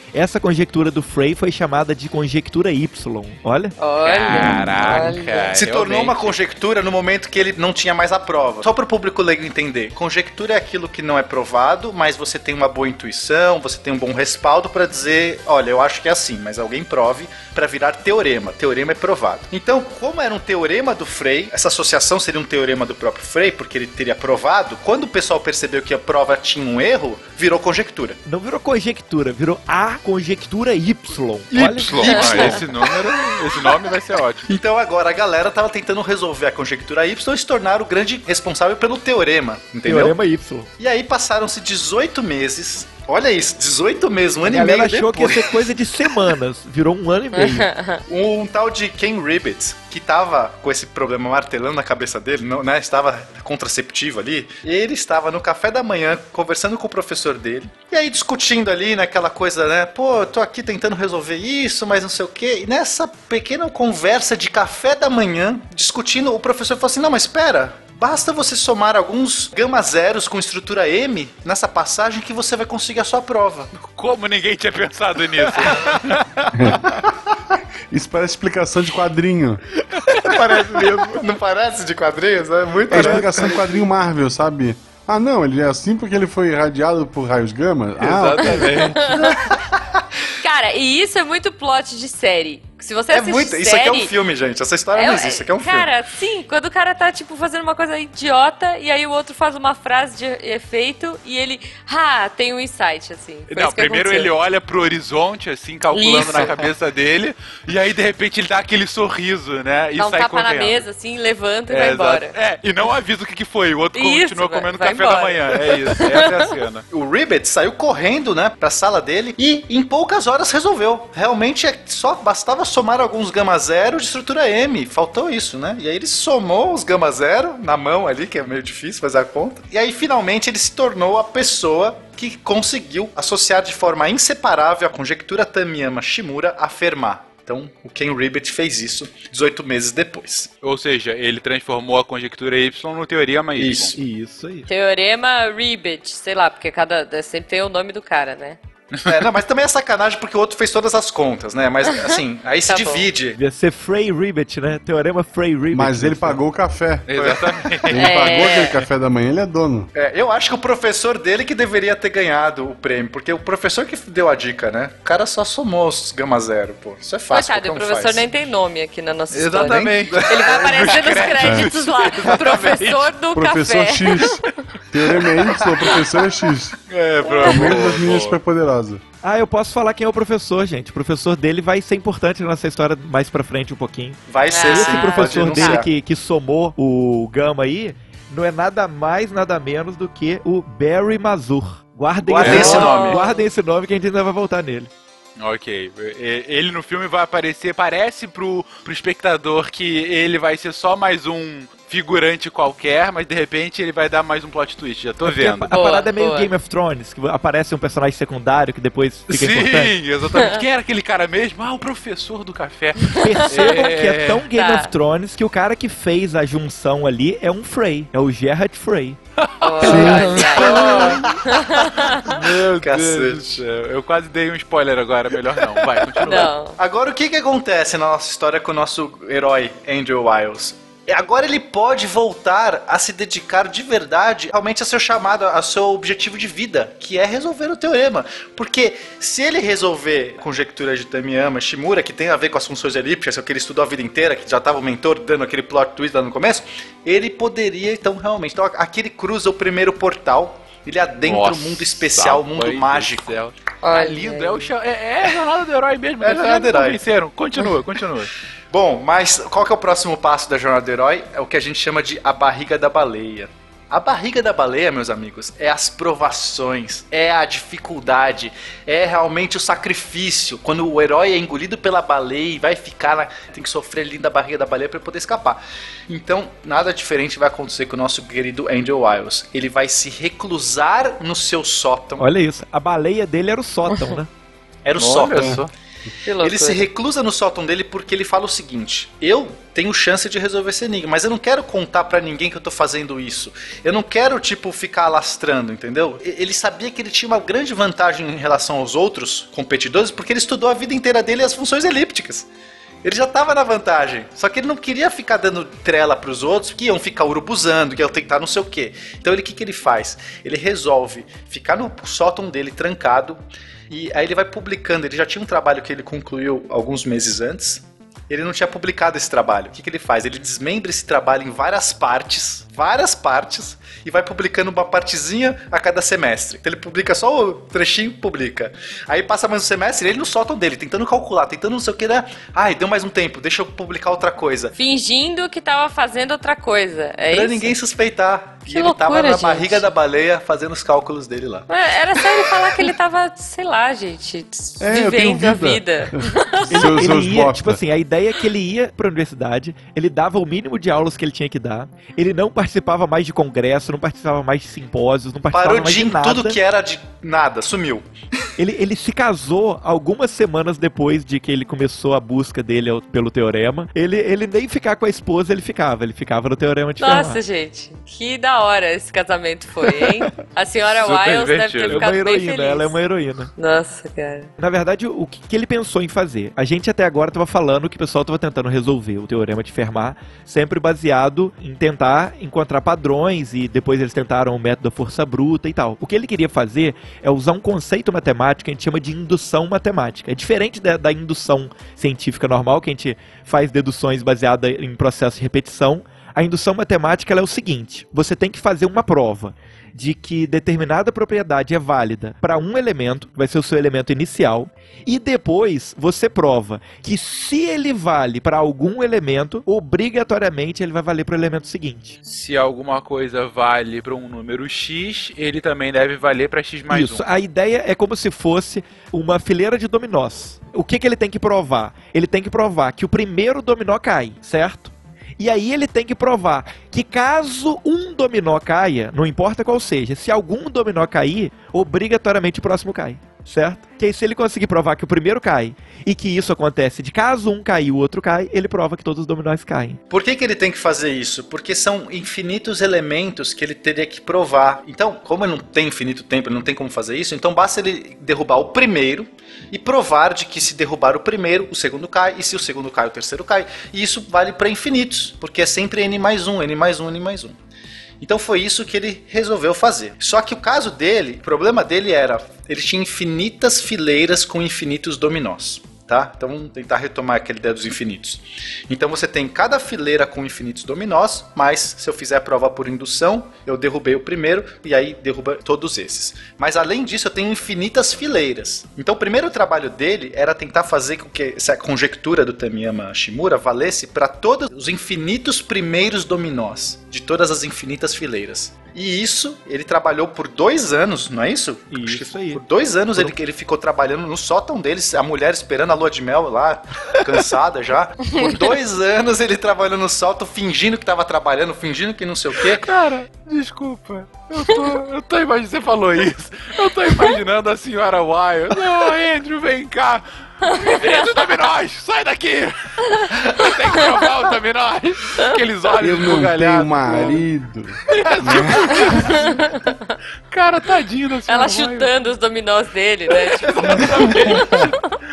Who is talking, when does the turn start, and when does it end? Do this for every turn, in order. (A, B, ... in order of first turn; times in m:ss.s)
0:00.1-0:03.8 A
0:03.8-0:05.5 B
0:04.0-0:06.3 C
0:04.3-0:05.2 A
0:05.5-0:28.2 D
0:28.2-0:31.9 A
0:31.5-0:33.7 D
0:31.5-0:34.4 C
0:32.0-0:32.6 B
0:34.5-0:40.1 D
0:39.8-0:40.7 A
0:40.8-0:45.6 D
0:44.4-0:47.7 A
0:47.3-0:48.0 B
0:48.1-1:13.7 D
1:13.7-1:16.2 C
1:16.5-1:16.9 E
1:17.9-1:19.6 E
1:20.1-1:23.6 D
1:20.2-1:21.0 A
1:22.9-1:28.7 E
1:22.9-1:23.6 A
1:28.0-1:29.2 C
1:28.4-1:29.4 B
1:29.1-1:30.0 D
1:30.4-1:34.1 B
1:33.1-1:35.9 D
1:34.9-1:44.3 B
1:43.5-1:50.8 C
1:45.9-1:46.5 B
1:46.4-1:46.7 D
1:50.0-1:52.3 B
1:51.7-1:56.8 C
1:54.0-1:56.2 B
1:56.9-2:20.5 D
2:20.6-2:24.0 C
2:23.6-2:24.0 D
2:24.0-2:24.7 A
2:24.7-2:28.6 B
2:29.0-2:33.4 D
2:32.7-2:33.1 B
2:33.4-2:36.4 A
2:35.7-2:37.1 E
2:37.1-2:38.0 C
2:37.1-2:37.9 D
2:37.9-2:39.9 E
2:37.9-2:38.8 B
2:39.9-2:48.2 D
2:47.3-2:54.4 B
2:49.3-2:51.3 D
2:49.4-2:53.1 C
2:51.4-2:51.7 E
2:53.3-2:56.8 E
2:56.9-2:58.4 C
2:57.2-2:57.7 B
2:57.3-2:59.0 E
2:59.2-3:14.9 A
3:04.3-3:05.9 D
3:04.5-3:05.8 B
3:12.2-3:13.2 C
3:12.4-3:13.1 D
3:12.4-3:13.4 B
3:15.4-3:25.7 C
3:25.2-3:30.0 A
3:25.7-3:26.5 B
3:29.3-3:34.4 C
3:33.1-3:33.7 B
3:33.2-3:39.2 A
3:34.5-3:34.9 B
3:39.4-3:41.3 C
3:39.6-3:42.3 B
3:39.8-3:43.6 D
3:42.2-3:46.5 C
3:45.8-4:13.3 D
3:46.2-3:46.8 B
4:11.2-4:18.3 C
4:13.8-4:14.7 B
4:16.2-4:17.0 D
4:18.7-4:42.2 D
4:42.2-4:44.3 A
4:44.8-4:45.6 D
4:45.0-4:45.7 C
4:46.2-4:46.9 B
4:46.4-5:02.5 D
5:03.0-5:13.4 D
5:13.9-5:34.7 D
5:34.7-5:37.7 B
5:37.3-5:41.7 D
5:38.7-5:39.8 B
5:41.7-5:46.9 B
5:42.2-5:42.8 D
5:44.8-5:47.8 E
5:46.7-5:56.6 A
5:55.5-5:58.1 D
5:58.6-6:07.4 A
6:07.0-6:13.0 B
6:10.9-6:12.0 C
6:11.9-6:13.5 A
6:13.6-6:14.5 B
6:14.6-6:52.2 A
6:52.2-6:57.2 C
6:56.9-7:20.0 A
7:20.1-7:37.6 D
7:38.2-8:22.9 D
8:11.9-8:12.6 A
8:22.8-8:37.4 C
8:30.6-8:31.2 B
8:33.1-8:33.7 B
8:36.0-8:39.3 E
8:38.1-8:39.5 C
8:38.9-8:40.1 B
8:40.5-8:42.1 C
8:41.5-8:45.0 B
8:43.6-8:44.9 C